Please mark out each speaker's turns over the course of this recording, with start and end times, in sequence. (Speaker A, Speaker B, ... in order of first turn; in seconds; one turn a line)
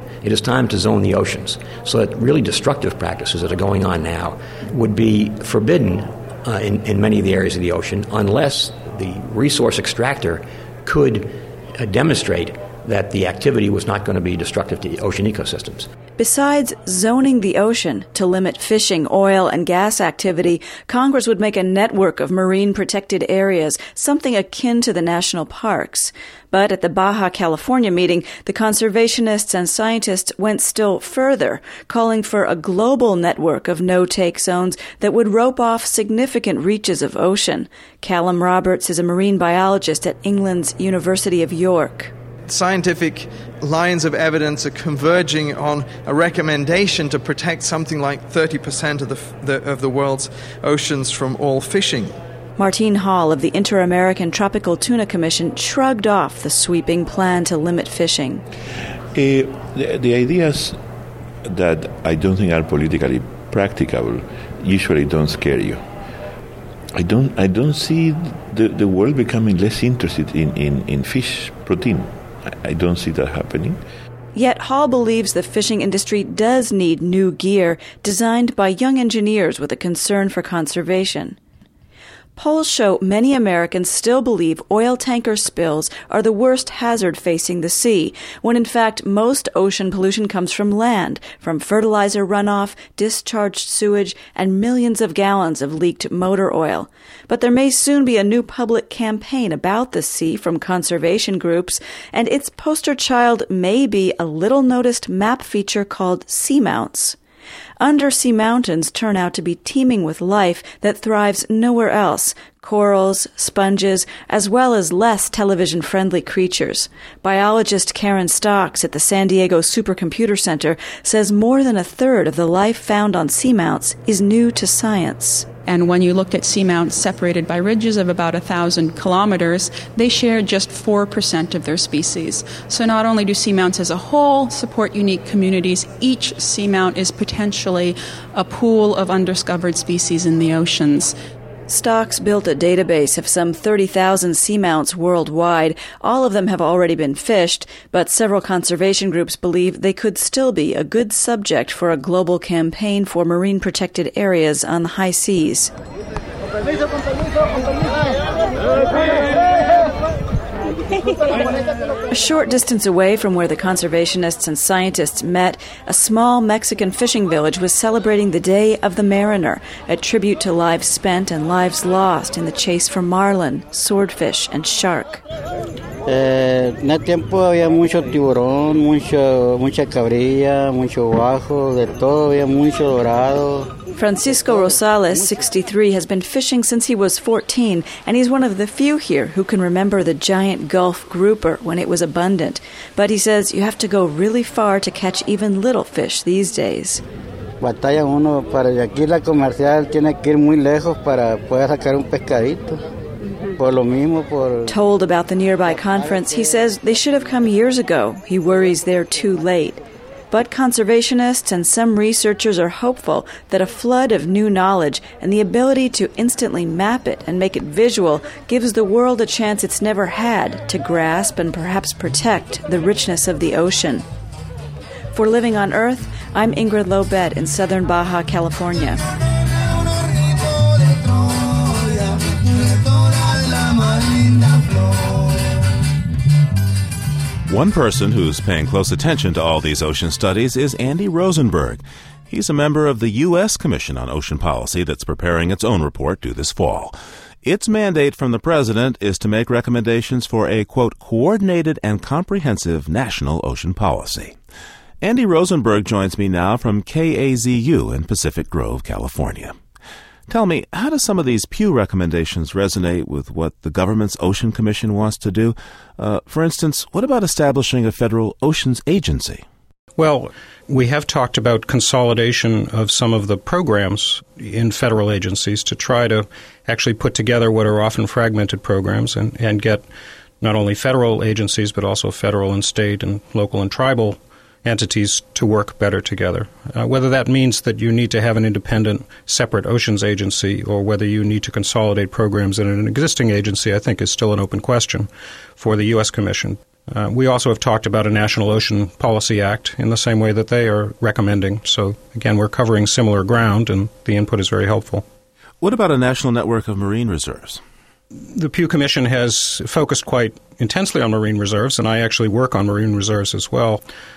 Speaker A: 0.2-15.9
Speaker B: 16.2-42.1
Speaker C: 42.5-52.2
Speaker B: 52.6-58.4
Speaker D: 59.1-60.8
Speaker D: 61.5-65.8
Speaker D: 67.0-73.8
Speaker B: 74.3-81.4
Speaker B: 82.4-107.2
Speaker B: 107.8-125.5
Speaker E: 125.7-141.1
Speaker B: 141.7-155.7
Speaker B: 162.1-175.2
Speaker F: 176.1-183.7
Speaker B: 184.0-197.0
Speaker F: 197.6-202.8
Speaker F: 203.6-204.7
Speaker B: 204.7-224.1
Speaker B: 225.1-229.0
Speaker G: 237.5-254.3
Speaker G: 255.0-259.6
Speaker G: 260.3-269.4
Speaker H: 270.0-279.9
Speaker H: 280.4-305.0
Speaker G: 305.6-307.6
Speaker H: 308.3-313.8